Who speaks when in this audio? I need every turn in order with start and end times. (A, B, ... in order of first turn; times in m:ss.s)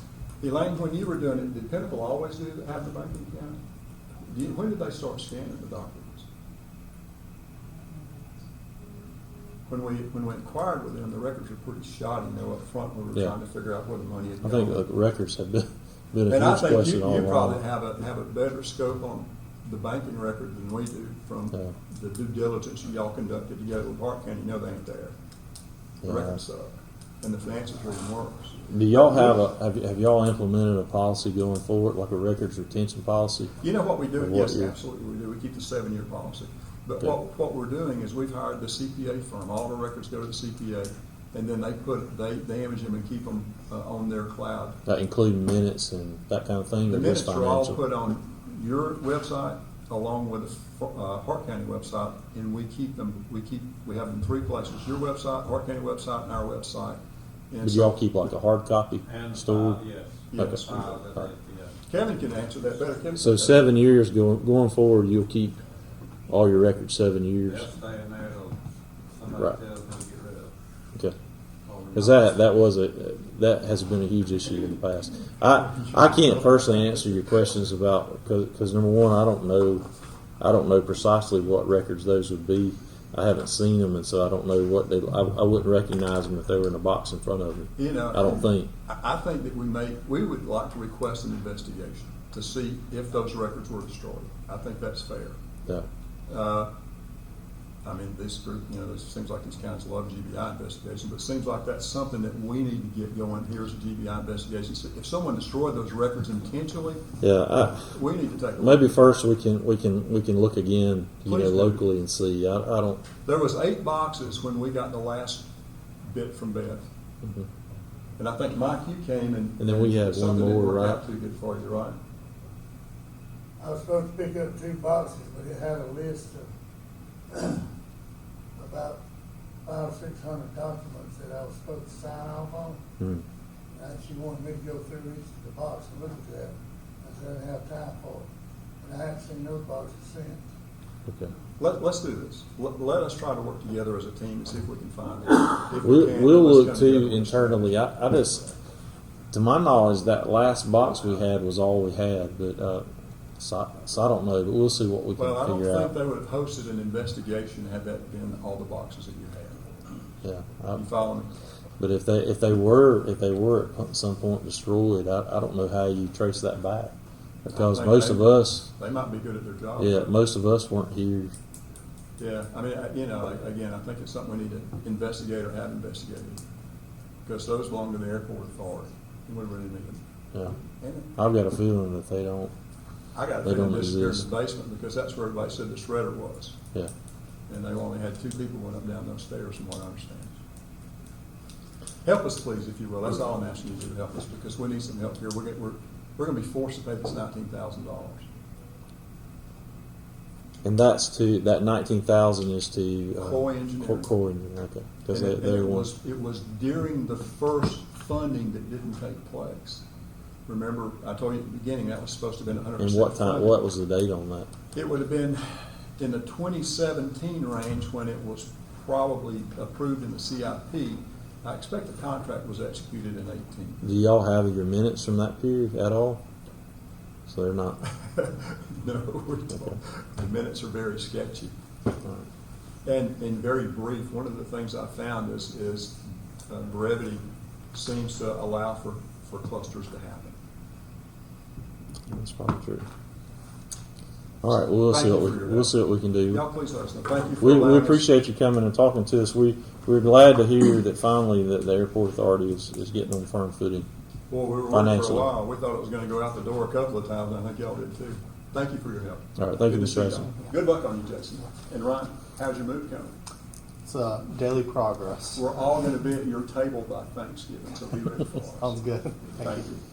0:00.4-0:03.6 A
0:04.2-0:06.3 A
0:09.7-0:14.8 A
0:14.4-0:17.6 B
0:16.3-0:25.1 A
0:26.0-0:26.4 B
0:26.0-0:29.3 A
0:28.7-0:33.5 B
0:33.6-0:44.8 A
0:34.2-0:34.7 B
0:44.9-0:47.8 B
0:46.9-0:57.0 A
0:57.5-0:58.0 A
0:57.6-0:59.8 B
0:59.1-1:01.8 C
1:00.3-1:01.0 A
1:01.9-1:03.7 A
1:03.2-1:05.6 B
1:06.3-1:07.7 B
1:07.5-1:08.6 C
1:09.1-1:10.5 C
1:11.7-1:12.4 C
1:11.9-1:19.9 B
1:15.7-1:17.0 A
1:20.4-1:28.7 B
1:27.8-1:35.4 A
1:36.3-1:36.7 A
1:37.8-1:47.0 A
1:47.2-1:47.9 B
1:47.9-1:49.0 A
1:48.6-1:53.0 B
1:51.3-1:51.8 A
1:53.2-1:55.5 A
1:56.0-1:56.9 A
1:58.2-2:02.0 A
1:59.6-2:01.0 B
2:03.6-2:06.5 D
2:07.3-2:07.7 D
2:08.6-2:09.0 D
2:09.7-2:12.8 D
2:13.8-2:18.3 D
2:18.8-2:20.4 D
2:21.1-2:21.3 B
2:21.6-2:27.8 A
2:25.8-2:28.5 B
2:29.3-2:32.8 B
2:33.4-2:36.0 B
2:35.2-2:39.9 A
2:40.2-2:40.8 B
2:40.7-2:41.3 A
2:41.8-2:46.9 B
2:47.4-2:48.7 B
2:47.5-2:50.1 A
2:49.8-2:51.3 B
2:52.2-2:56.4 A
2:57.3-3:00.0 A
3:00.8-3:01.1 A
3:01.2-3:02.5 B
3:03.1-3:06.6 A
3:03.4-3:04.3 B
3:07.5-3:10.4 A
3:12.0-3:18.3 A
3:20.6-3:25.9 B
3:23.2-3:24.1 A
3:25.1-3:29.8 A
3:30.5-3:33.6 A
3:32.8-3:34.5 B
3:34.7-3:43.8 A
3:43.8-3:46.2 B
3:47.3-3:47.8 B
3:47.8-3:51.5 A
3:52.8-3:57.2 A
3:57.7-4:00.4 A
4:02.1-4:02.9 B
4:04.4-4:06.4 B
4:04.9-4:05.8 A
4:06.3-4:08.1 A
4:07.4-4:13.9 B
4:14.3-4:23.1 A
4:14.7-4:15.3 B
4:19.4-4:20.3 B
4:23.8-4:25.4 E
4:25.3-4:28.8 A
4:28.6-4:29.7 E
4:29.4-4:29.8 A